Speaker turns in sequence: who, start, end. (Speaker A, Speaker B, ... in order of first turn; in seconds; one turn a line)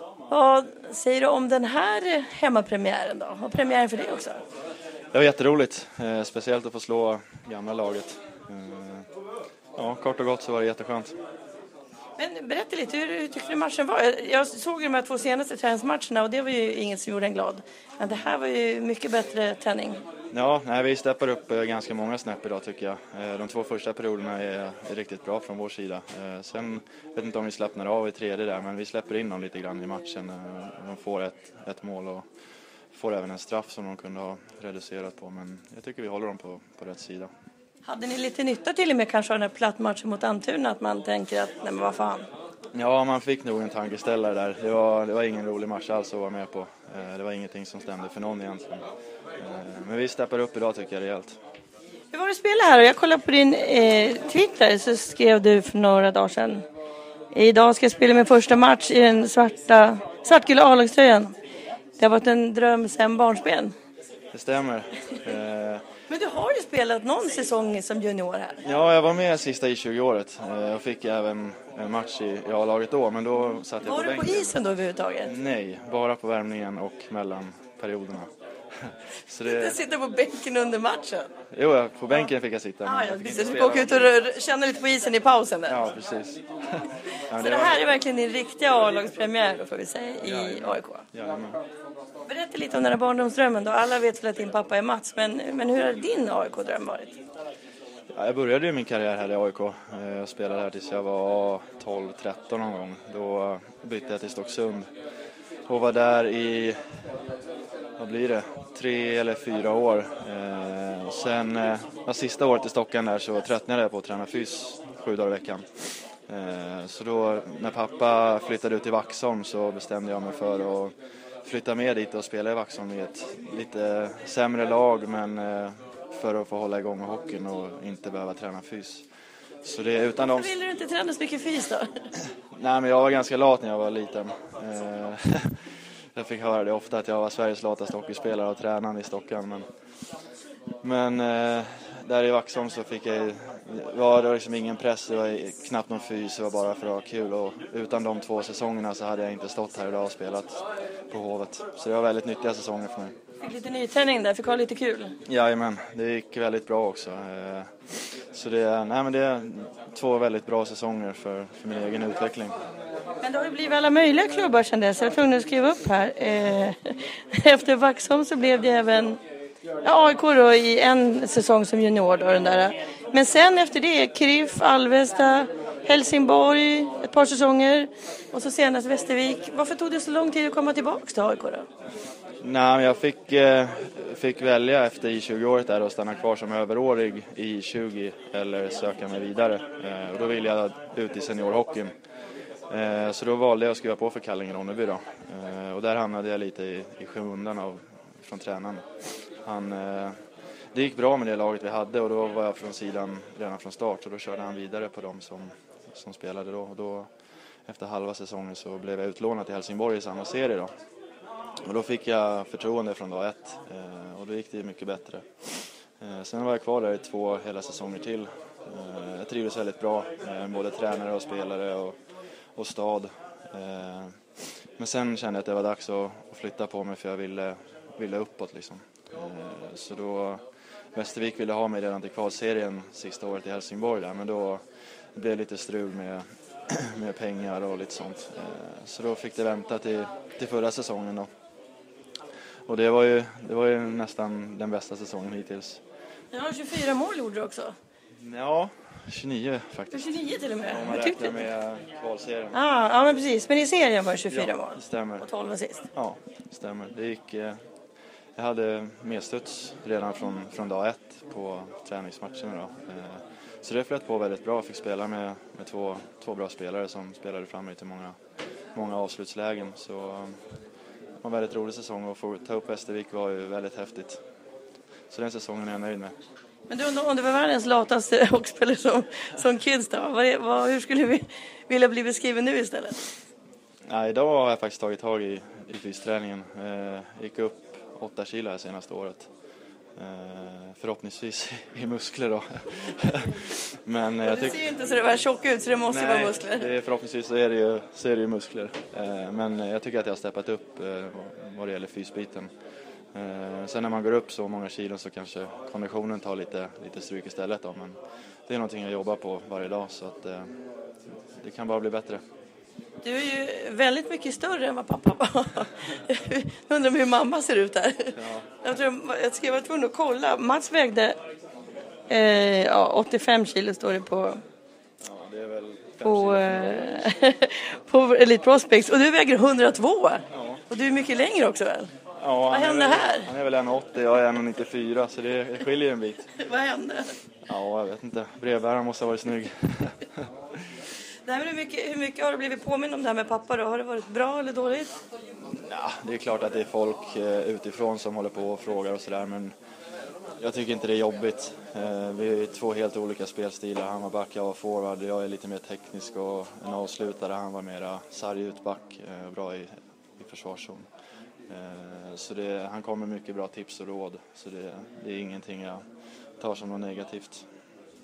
Speaker A: 0.3-4.4
Speaker B: 5.1-9.1
Speaker B: 9.7-11.2
Speaker A: 12.2-20.0
Speaker B: 20.3-32.2
Speaker B: 32.9-37.3
Speaker A: 37.8-42.2
Speaker B: 42.7-48.8
Speaker B: 49.4-51.4
Speaker A: 52.1-56.6
Speaker A: 57.3-61.3
Speaker A: 62.0-63.7
Speaker B: 64.3-65.8
Speaker A: 66.1-68.6
Speaker B: 68.6-74.5
Speaker A: 73.8-75.3
Speaker B: 75.2-79.8
Speaker A: 79.4-81.3
Speaker B: 81.5-84.1
Speaker A: 82.8-85.8
Speaker B: 85.7-87.8
Speaker A: 87.3-91.0
Speaker B: 90.2-91.6
Speaker A: 92.3-97.2
Speaker B: 98.1-104.9
Speaker B: 105.7-106.8
Speaker B: 108.0-120.9
Speaker B: 121.4-129.1
Speaker B: 129.6-130.5
Speaker A: 130.2-132.0
Speaker B: 132.5-139.6
Speaker B: 140.8-153.1
Speaker A: 153.4-155.2
Speaker B: 155.2-162.5
Speaker A: 163.2-169.2
Speaker A: 169.8-181.7
Speaker B: 182.4-191.9
Speaker B: 192.7-198.8
Speaker B: 199.4-200.2
Speaker B: 200.7-207.1
Speaker B: 207.7-210.7
Speaker B: 211.7-222.0
Speaker B: 222.5-234.6
Speaker B: 235.1-241.3
Speaker B: 242.7-245.8
Speaker A: 246.3-247.7
Speaker B: 248.2-252.6
Speaker A: 249.9-251.4
Speaker A: 252.5-255.9
Speaker B: 254.3-255.2
Speaker B: 255.9-257.6
Speaker B: 258.4-268.1
Speaker B: 268.7-270.4
Speaker B: 271.2-274.2
Speaker B: 275.1-276.1
Speaker A: 276.7-283.1
Speaker B: 283.9-289.3
Speaker B: 290.0-294.6
Speaker A: 294.2-296.7
Speaker B: 295.9-302.5
Speaker B: 303.1-310.5
Speaker B: 311.4-312.2
Speaker A: 313.0-321.2
Speaker B: 318.1-318.5
Speaker A: 322.1-324.4
Speaker B: 325.0-327.1
Speaker A: 326.0-331.9
Speaker B: 330.3-330.6
Speaker B: 332.2-336.3
Speaker A: 332.5-333.3
Speaker A: 336.3-337.1
Speaker B: 337.5-340.3
Speaker A: 341.2-345.0
Speaker B: 345.4-349.5
Speaker B: 350.4-360.9
Speaker B: 361.5-365.8
Speaker B: 366.4-367.4